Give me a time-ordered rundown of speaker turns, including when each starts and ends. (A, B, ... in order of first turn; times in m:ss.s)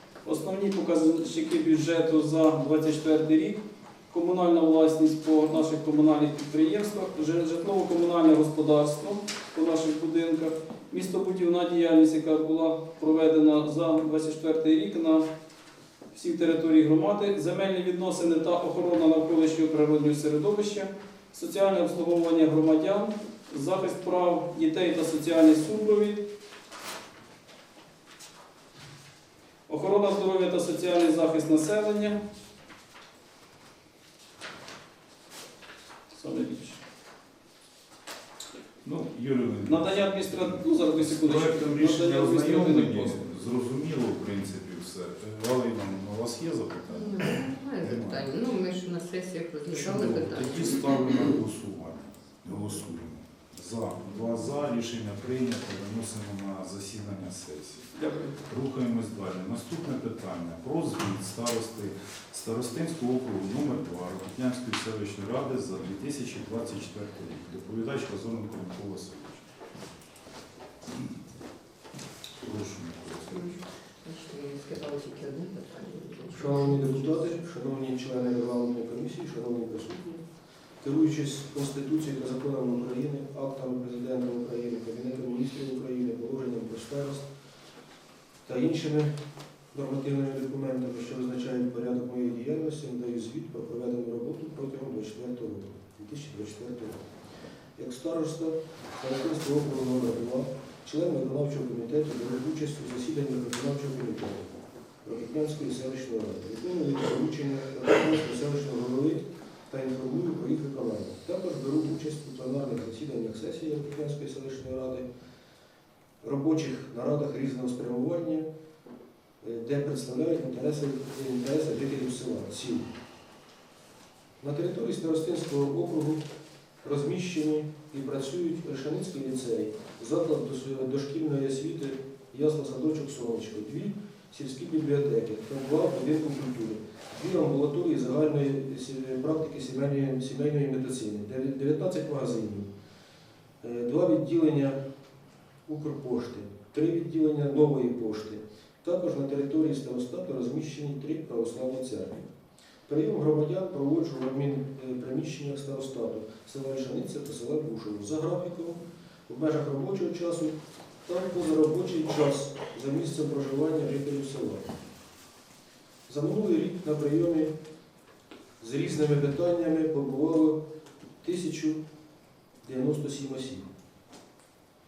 0:00.2-0:15.2 A
0:16.1-0:26.2 A
0:29.7-0:32.2 A
0:36.1-0:36.8 A
0:38.8-0:48.3 B
0:39.6-0:43.2 A
0:46.9-0:51.3 C
0:49.7-0:57.9 B
0:58.0-0:58.3 A
0:58.4-1:09.4 B
1:12.4-1:13.6 B
1:13.3-1:17.4 C
1:16.3-1:20.2 D
1:20.8-1:27.3 D
1:28.4-1:29.1 D
1:29.7-1:37.1 D
1:37.8-1:55.1 D
1:56.2-1:58.5 D
1:59.4-2:02.9 D
2:04.4-2:06.2 D
2:06.8-2:22.7 D
2:23.6-2:24.8 D
2:25.6-2:32.2 D
2:32.8-2:44.7 D
2:46.1-2:47.5 D
2:48.6-2:50.6 D
2:51.2-2:51.8 D
2:52.6-2:53.6 D